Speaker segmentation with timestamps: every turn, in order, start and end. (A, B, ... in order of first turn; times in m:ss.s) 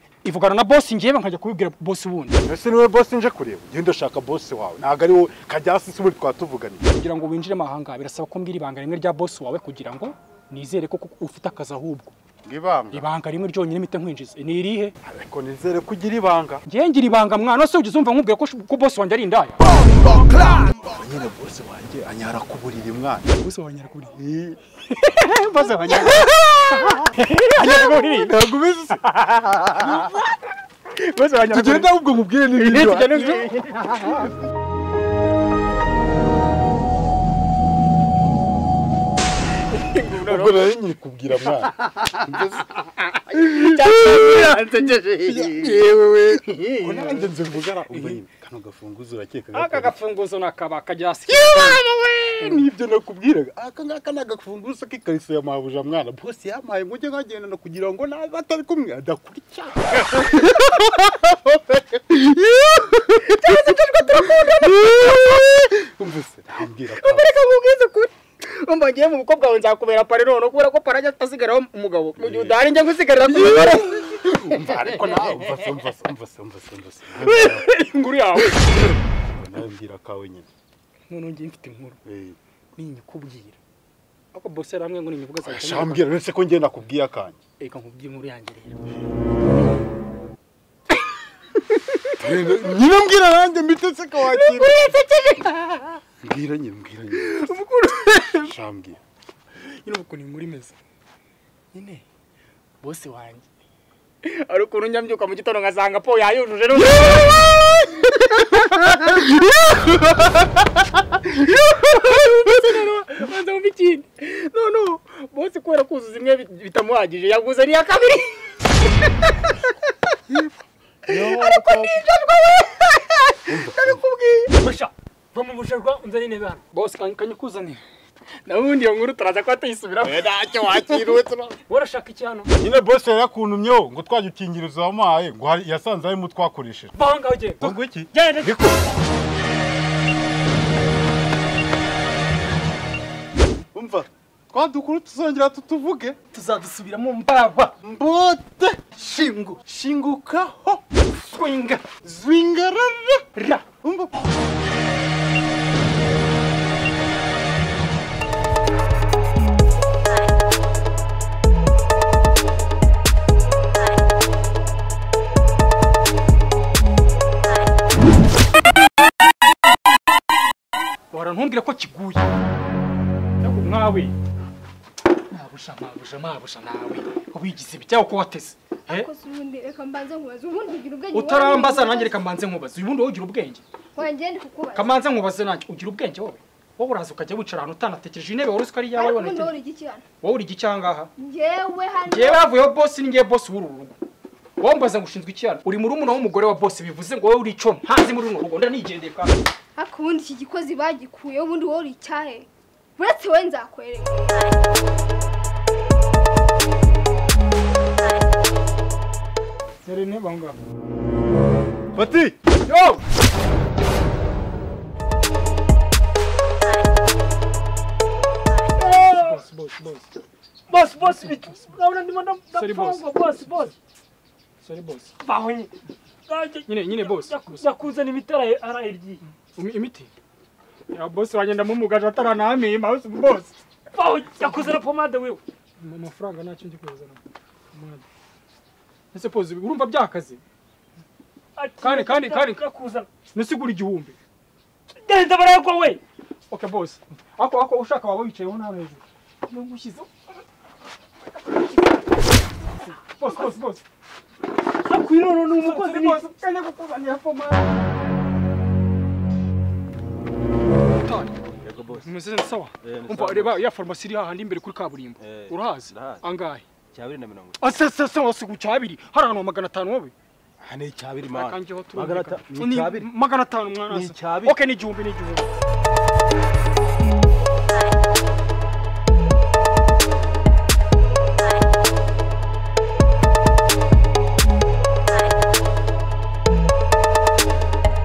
0:00.2-0:02.4 A
0:02.4-0:06.8 B
0:06.8-0:12.2 A
0:12.4-0:13.1 B
0:12.9-0:15.0 A
0:15.0-0:16.6 B
0:16.7-0:19.6 A
0:19.7-0:23.3 B
0:23.4-0:24.2 A
0:24.2-0:24.6 B
0:24.9-0:28.3 A
0:25.6-0:30.2 B
0:29.0-0:30.3 A
0:30.9-0:31.9 A
0:31.5-0:33.5 B
0:32.6-0:34.4 A
0:39.7-0:40.7 A
0:40.2-0:42.7 B
0:43.0-0:44.7 A
0:43.3-0:50.0 B
0:49.5-0:51.8 A
0:51.3-1:03.7 B
0:52.4-0:52.7 A
1:03.2-1:05.7 A
1:04.7-1:07.3 B
1:07.0-1:15.4 A
1:12.2-1:12.6 B
1:13.3-1:17.7 B
1:17.2-1:19.0 A
1:19.3-1:20.5 B
1:21.1-1:22.0 A
1:22.1-1:22.4 B
1:22.8-1:23.6 A
1:24.3-1:26.1 A
1:25.4-1:27.4 B
1:27.6-1:28.8 A
1:32.2-1:34.9 B
1:34.2-1:35.9 A
1:36.2-1:37.4 B
1:37.1-1:38.5 A
1:38.4-1:39.0 B
1:39.8-1:40.8 A
1:41.7-1:42.0 A
1:42.8-1:43.4 A
1:44.2-1:58.7 A
2:01.1-2:04.5 A
2:03.5-2:03.9 B
2:04.6-2:06.6 C
2:06.7-2:07.8 A
2:08.5-2:11.3 A
2:10.0-2:11.5 B
2:11.7-2:12.5 C
2:12.6-2:17.0 B
2:17.0-2:18.6 C
2:17.6-2:18.5 B
2:23.7-2:26.2 B
2:26.3-2:27.8 A
2:27.8-2:30.8 B
2:31.1-2:31.9 A
2:32.0-2:33.2 B
2:33.4-2:33.7 A
2:33.8-2:34.1 B
2:51.1-2:52.2 A
2:53.4-2:54.2 A
2:55.3-2:59.1 A
2:58.9-3:02.2 D
3:01.1-3:03.6 A
3:04.0-3:04.9 D
3:04.8-3:09.5 A
3:09.0-3:10.0 D
3:10.2-3:11.1 A
3:11.2-3:12.5 D
3:12.1-3:14.0 A
3:14.6-3:19.4 A
3:19.8-3:24.4 D
3:29.8-3:30.6 A
3:32.0-3:32.4 B
3:32.6-3:33.0 A
3:38.8-3:39.4 C
3:39.0-3:40.1 A
3:40.7-3:43.7 C
3:42.5-3:43.1 A
3:44.6-3:45.1 A
3:45.2-3:45.7 C
3:46.3-3:49.2 C
3:46.7-3:47.7 A
3:49.5-3:50.1 A
3:50.9-3:53.6 A
3:54.0-3:55.4 C
3:55.8-3:57.2 A
3:57.7-3:58.0 A
3:59.1-4:00.4 A
4:01.6-4:03.1 C
4:01.8-4:02.6 A
4:03.3-4:04.2 A
4:05.0-4:06.0 C
4:06.5-4:10.1 A
4:13.0-4:13.8 A
4:14.8-4:16.2 C
4:15.5-4:17.7 A
4:21.0-4:21.4 A
4:21.6-4:22.0 E
4:21.9-4:26.6 A
4:22.8-4:23.6 E
4:25.2-4:26.2 E
4:26.9-4:27.6 E
4:27.6-4:30.1 A
4:30.6-4:33.1 E
4:31.3-4:35.5 A
4:33.9-4:34.5 E